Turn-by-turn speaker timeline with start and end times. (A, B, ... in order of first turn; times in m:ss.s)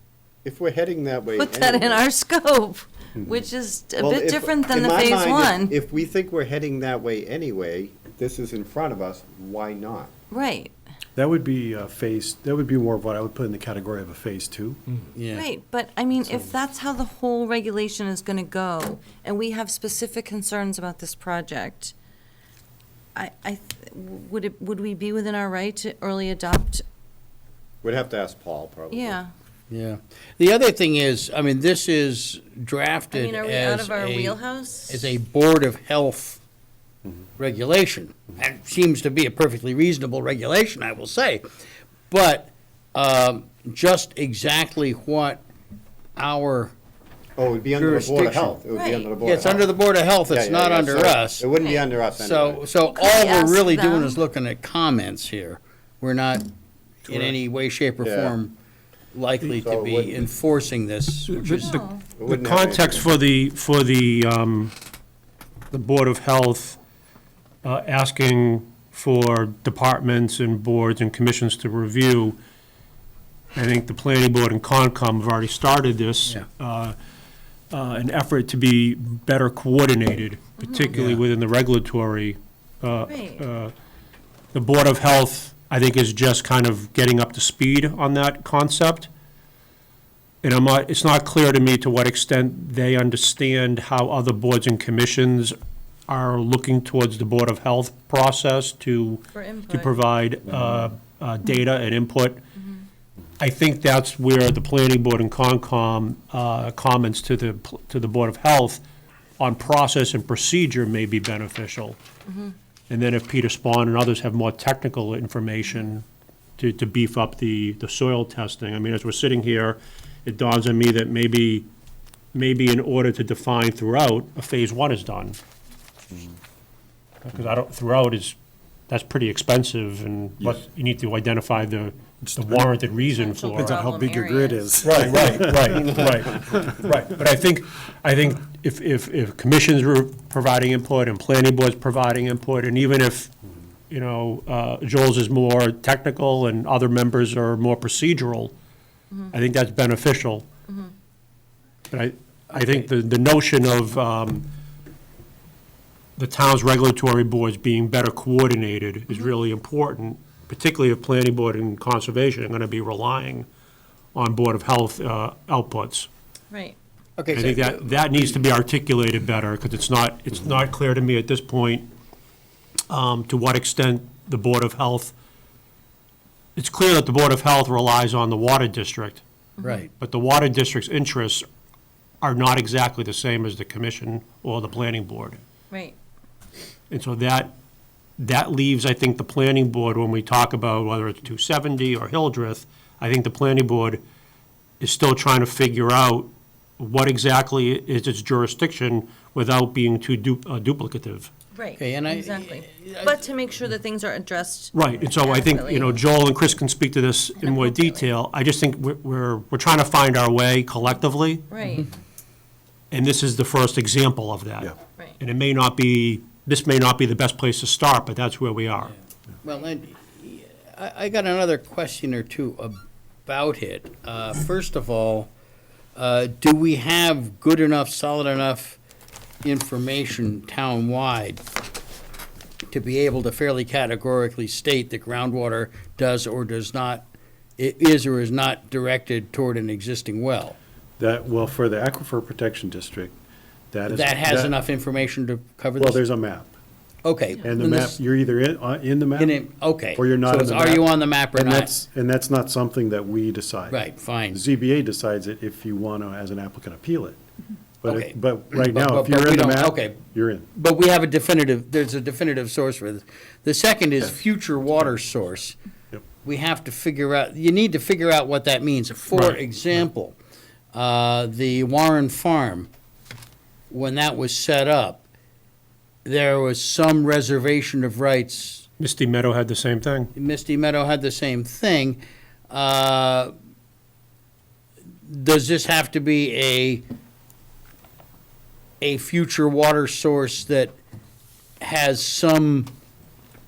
0:00.4-0:02.0 A
0:01.4-0:05.8 B
0:04.0-0:10.1 A
0:10.3-0:10.7 B
0:11.2-0:14.8 C
0:15.2-0:15.5 D
0:15.4-0:21.9 B
0:23.2-0:26.8 B
0:27.8-0:29.2 A
0:28.9-0:29.3 B
0:29.7-0:36.4 D
0:33.1-0:35.1 B
0:37.4-0:41.5 D
0:42.1-0:45.4 D
0:46.2-0:46.7 D
0:47.4-0:49.7 A
0:47.8-0:48.6 D
0:48.8-0:49.1 B
0:49.2-0:51.5 D
0:50.3-0:52.6 A
0:51.6-0:51.9 B
0:52.2-0:56.5 D
0:52.9-0:54.2 B
0:57.0-0:58.5 D
0:58.0-0:58.4 A
0:59.1-1:01.8 D
0:59.5-1:00.3 A
1:01.3-1:04.7 E
1:01.6-1:02.0 B
1:02.2-1:03.1 A
1:05.7-1:06.8 E
1:07.6-1:12.4 E
1:13.5-1:17.0 E
1:17.7-1:23.7 E
1:20.6-1:20.9 B
1:21.0-1:21.2 D
1:23.1-1:23.4 B
1:24.5-1:29.1 E
1:30.4-1:35.5 E
1:36.1-1:42.4 E
1:39.3-1:40.0 B
1:43.4-1:48.8 E
1:49.4-1:52.0 E
1:52.9-1:56.0 E
1:56.6-2:01.7 E
2:02.3-2:05.4 E
2:07.2-2:08.4 E
2:08.9-2:13.8 E
2:12.2-2:12.7 C
2:13.1-2:14.8 B
2:13.6-2:16.0 C
2:14.8-2:23.3 E
2:23.9-2:28.5 E
2:29.3-2:30.5 E
2:31.9-2:34.5 E
2:36.2-2:43.5 E
2:44.1-2:46.1 E
2:46.5-2:46.8 B
2:47.2-2:48.2 D
2:47.3-2:51.9 E
2:52.9-2:55.2 E
2:56.6-2:59.2 E
2:59.6-2:59.9 B
2:59.6-2:59.9 D
3:00.0-3:01.4 E
3:02.2-3:05.4 E
3:05.7-3:06.0 B
3:06.9-3:07.6 E
3:08.2-3:14.0 E
3:14.8-3:21.3 E
3:21.6-3:26.0 B
3:21.8-3:23.2 D
3:24.7-3:31.4 E
3:27.4-3:28.1 B
3:31.5-3:31.9 B
3:32.9-3:38.9 E
3:38.9-3:45.3 D
3:46.0-3:48.8 D
3:49.4-3:51.4 D
3:52.7-3:57.1 D
3:57.6-4:00.6 D
4:01.0-4:03.1 C
4:03.7-4:04.6 C
4:03.9-4:06.0 D
4:05.8-4:06.5 C
4:07.0-4:08.0 D
4:07.4-4:17.2 C
4:09.2-4:11.7 D
4:13.7-4:14.4 D
4:17.8-4:20.5 C
4:17.9-4:20.0 D
4:20.5-4:25.6 D
4:26.2-4:30.2 D
4:29.1-4:29.4 E
4:30.7-4:32.7 D
4:33.7-4:35.0 D
4:36.0-4:38.7 D
4:38.8-4:40.1 E
4:40.2-4:43.3 D
4:45.1-4:46.8 D
4:48.8-4:50.8 D
4:51.6-4:52.7 D